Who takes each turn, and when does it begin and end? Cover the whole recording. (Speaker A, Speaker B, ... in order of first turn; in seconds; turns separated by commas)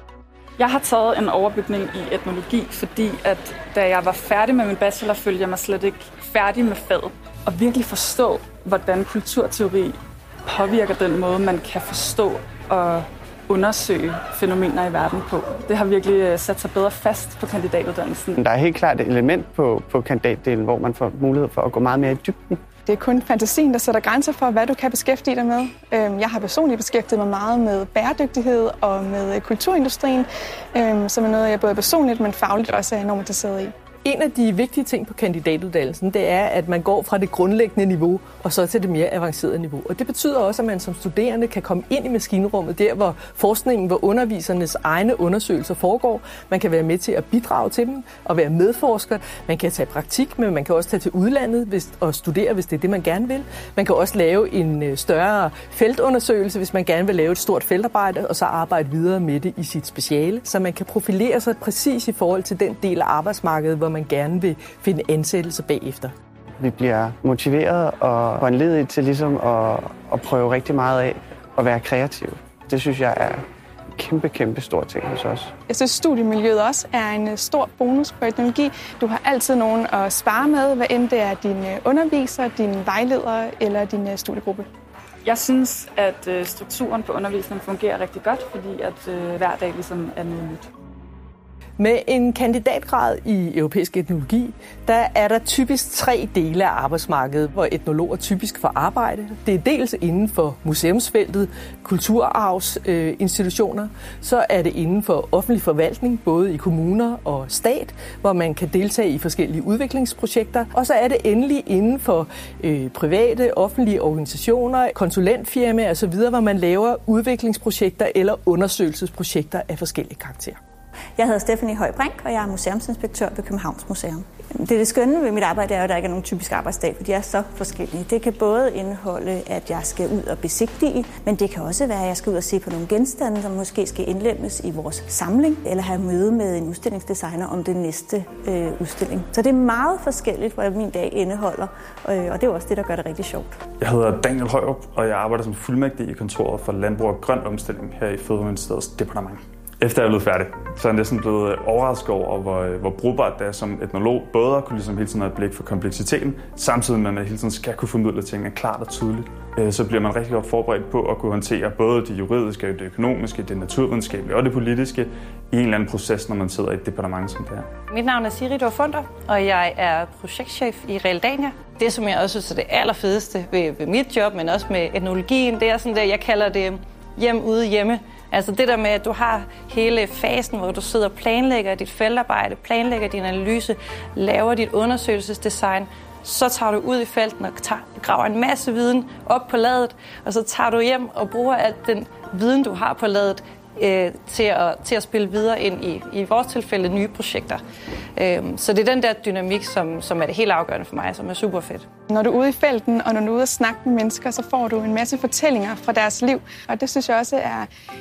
Speaker A: 0.6-18.4, Speaker B: 18.4-22.6, Speaker C: 22.9-33.7, Speaker D: 34.0-66.1, Speaker B: 66.6-73.4, Speaker B: 74.0-75.5, Speaker C: 75.7-84.7, Speaker A: 85.2-90.7, Speaker D: 91.8-120.6, Speaker E: 121.2-143.6, Speaker F: 143.8-167.7, Speaker G: 167.9-197.6, Speaker G: 198.2-201.8, Speaker C: 202.1-207.7